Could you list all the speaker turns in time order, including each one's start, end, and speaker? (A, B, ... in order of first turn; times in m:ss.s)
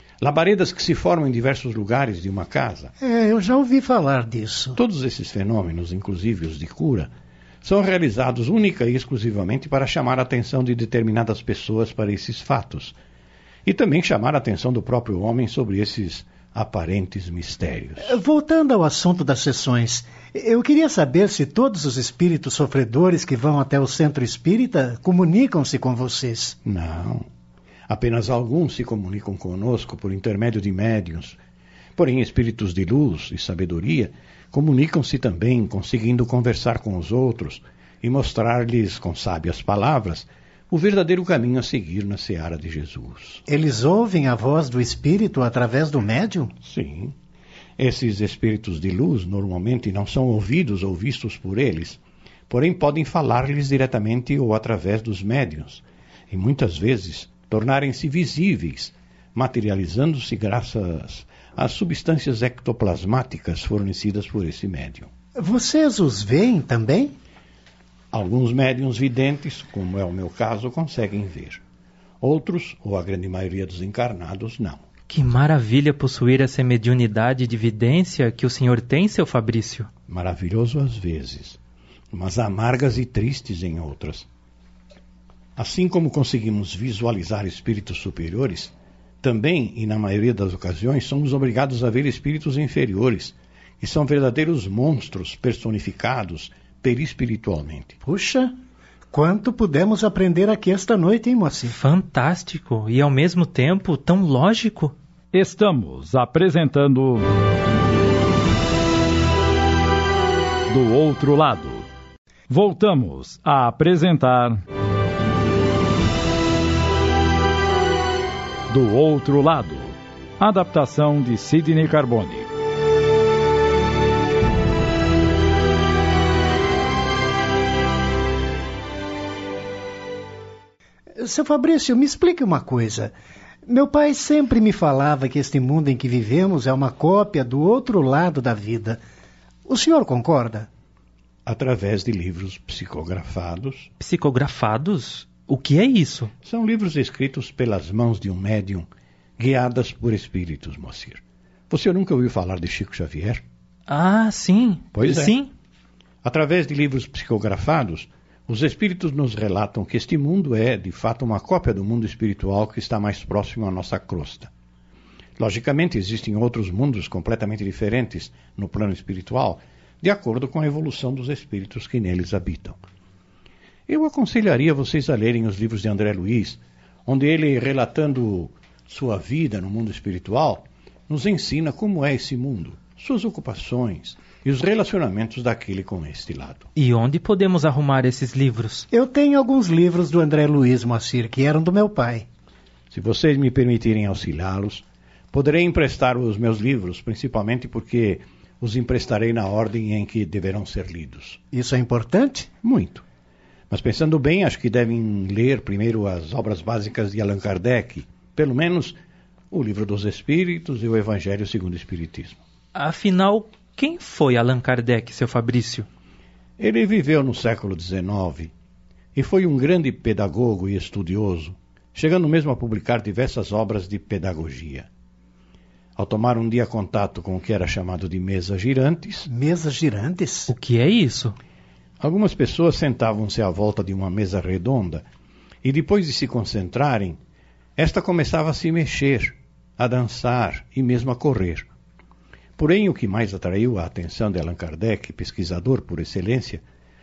0:00.2-0:02.9 A
0:03.0-0:04.8 B
0:04.8-0:07.1 A
0:07.6-0:13.0 A
0:13.7-0:18.1 A
0:18.0-0:26.6 B
0:26.6-0:27.3 A
0:27.9-0:31.4 A
0:32.0-0:43.4 A
0:43.5-0:46.5 B
0:46.6-0:47.1 A
0:47.8-1:05.1 A
1:05.4-1:07.1 B
1:08.1-1:11.6 A
1:12.2-1:14.8 A
1:15.1-1:19.9 C
1:20.1-1:21.6 A
1:22.1-1:24.3 A
1:25.6-1:38.0 A
1:38.0-1:38.5 B
1:39.1-1:41.8 B
1:41.7-1:45.0 C
1:45.3-1:47.3 D
1:50.7-1:51.9 D
1:52.5-1:54.6 D
1:58.7-2:02.5 D
2:11.2-2:13.1 B
2:13.6-2:19.0 B
2:19.7-2:20.7 B
2:21.5-2:23.9 A
2:24.0-2:26.3 C
2:26.4-2:28.9 A
2:29.4-2:33.4 A
2:33.9-2:35.5 C
2:34.9-2:35.4 A
2:36.2-2:44.5 A
2:45.4-2:52.8 A
2:53.9-3:06.7 A
3:06.8-3:08.9 C
3:08.9-3:12.3 B
3:12.9-3:21.4 A
3:21.5-3:22.5 B
3:22.6-3:23.0 A
3:23.7-3:29.0 A
3:29.5-3:32.4 A
3:32.8-3:35.9 C
3:36.6-3:38.5 A
3:39.2-3:44.9 A
3:46.0-3:49.3 A
3:49.3-3:50.5 B
3:50.5-3:51.4 C
3:52.0-3:55.0 A
3:55.6-3:57.2 A
3:57.8-4:01.7 A
4:02.6-4:06.6 A